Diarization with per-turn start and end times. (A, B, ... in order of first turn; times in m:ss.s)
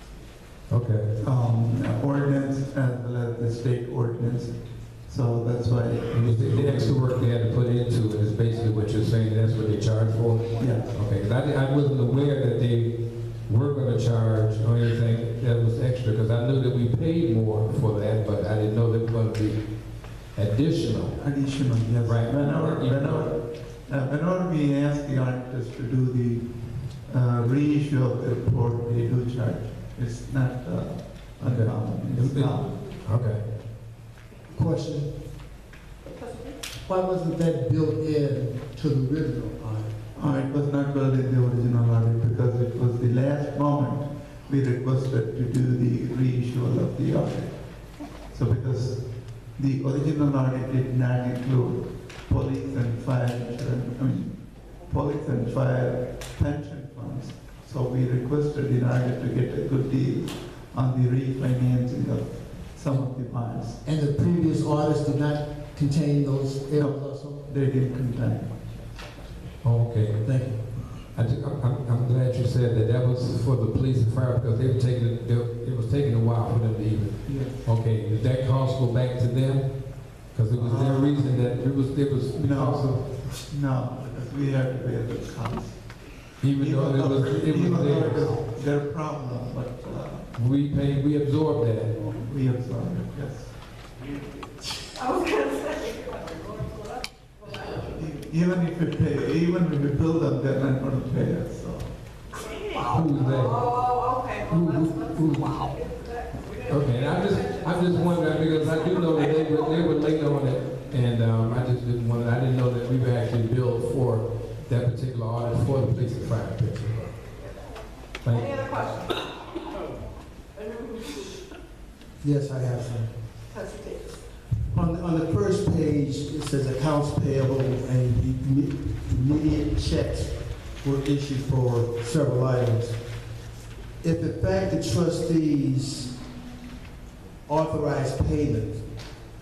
0:00.7-0:01.2 A
0:01.2-0:07.0 B
0:06.1-0:21.4 A
0:10.6-0:10.9 B
0:21.2-0:32.9 B
0:22.0-0:23.4 A
0:31.4-0:33.6 A
0:34.5-0:35.2 C
0:36.0-0:36.6 D
0:36.8-0:39.9 C
0:40.1-1:03.8 B
1:03.8-1:07.4 C
1:06.7-1:08.7 B
1:09.6-1:10.4 A
1:10.2-1:11.0 C
1:11.1-1:23.2 A
1:17.2-1:17.6 B
1:20.5-1:21.4 B
1:22.4-1:30.3 B
1:26.4-1:28.4 A
1:30.3-1:32.1 A
1:32.1-1:33.7 B
1:34.9-1:36.6 D
1:37.4-1:37.8 D
1:37.8-1:42.0 B
1:42.4-1:46.5 D
1:42.9-1:43.8 A
1:44.4-1:45.8 A
1:46.6-1:57.3 A
1:57.3-1:59.4 D
1:58.2-1:58.7 A
2:00.5-2:01.4 D
2:02.2-2:03.2 C
2:03.5-2:04.2 D
2:04.7-2:13.2 C
2:14.0-2:16.2 C
2:17.4-2:19.1 C